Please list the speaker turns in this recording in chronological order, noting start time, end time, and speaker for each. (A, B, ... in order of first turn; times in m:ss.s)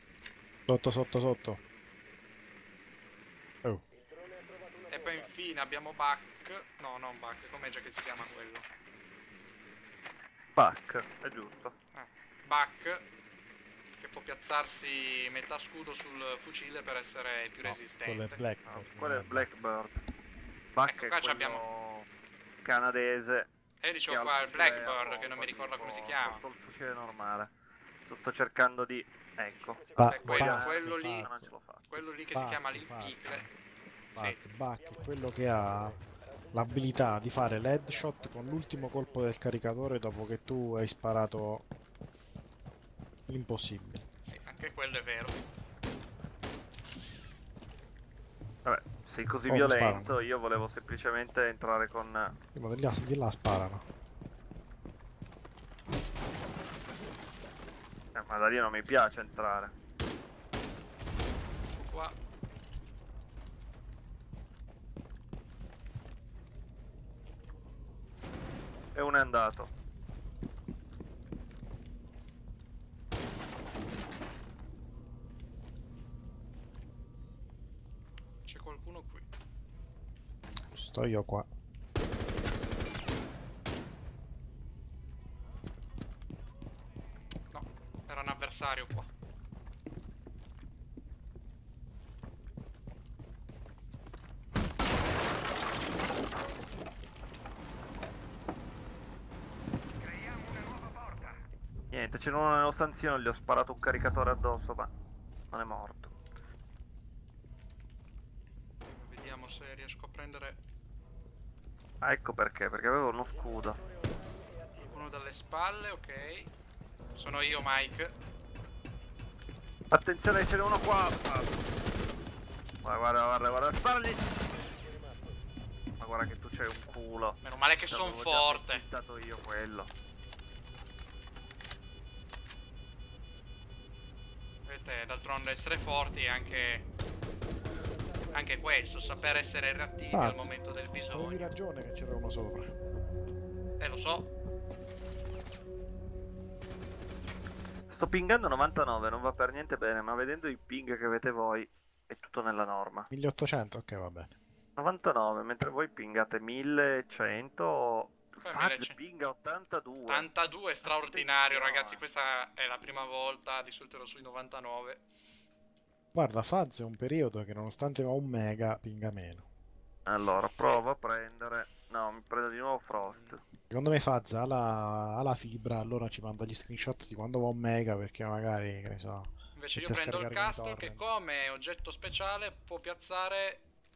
0:00.7-0:01.6 A
0:04.9-0:08.7 B
0:10.6-0:11.8 C
0:11.9-0:13.1 B
0:14.0-0:18.4 B
0:17.6-0:19.5 A
0:18.6-0:20.1 C
0:20.7-0:22.1 C
0:20.9-0:21.6 B
0:22.6-0:23.5 C
0:23.8-0:26.4 B
0:24.1-0:27.5 C
0:28.1-0:32.0 C
0:30.0-0:31.5 A
0:30.0-0:31.3 B
0:31.9-0:33.5 B
0:32.3-0:33.5 A
0:34.2-0:34.4 B
0:34.2-0:36.0 A
0:36.5-0:41.7 A
0:43.3-0:44.0 A
0:44.2-0:45.4 B
0:48.6-0:52.3 C
0:49.5-0:50.2 A
0:52.5-0:53.8 A
0:58.2-0:59.7 C
1:01.7-1:02.2 B
1:09.0-1:09.7 C
1:18.4-1:19.3 B
1:20.7-1:21.5 A
1:27.5-1:29.1 B
1:41.9-1:44.9 C
1:45.5-1:46.1 C
1:48.9-1:50.6 B
1:52.0-1:53.8 C
1:54.9-1:56.5 B
1:57.2-1:58.1 B
1:59.9-2:01.6 C
2:02.8-2:04.3 C
2:06.0-2:09.9 C
2:07.4-2:08.8 B
2:14.7-2:16.8 B
2:18.3-2:21.5 B
2:20.1-2:22.7 A
2:23.8-2:24.3 B
2:27.9-2:33.1 C
2:33.1-2:34.4 A
2:34.8-2:40.3 C
2:38.4-2:39.0 B
2:40.1-2:45.0 B
2:40.8-2:42.0 C
2:46.1-2:49.5 A
2:50.1-2:53.4 C
2:50.2-2:50.8 B
2:53.0-2:53.4 B
2:53.7-3:01.0 A
2:59.6-3:03.6 B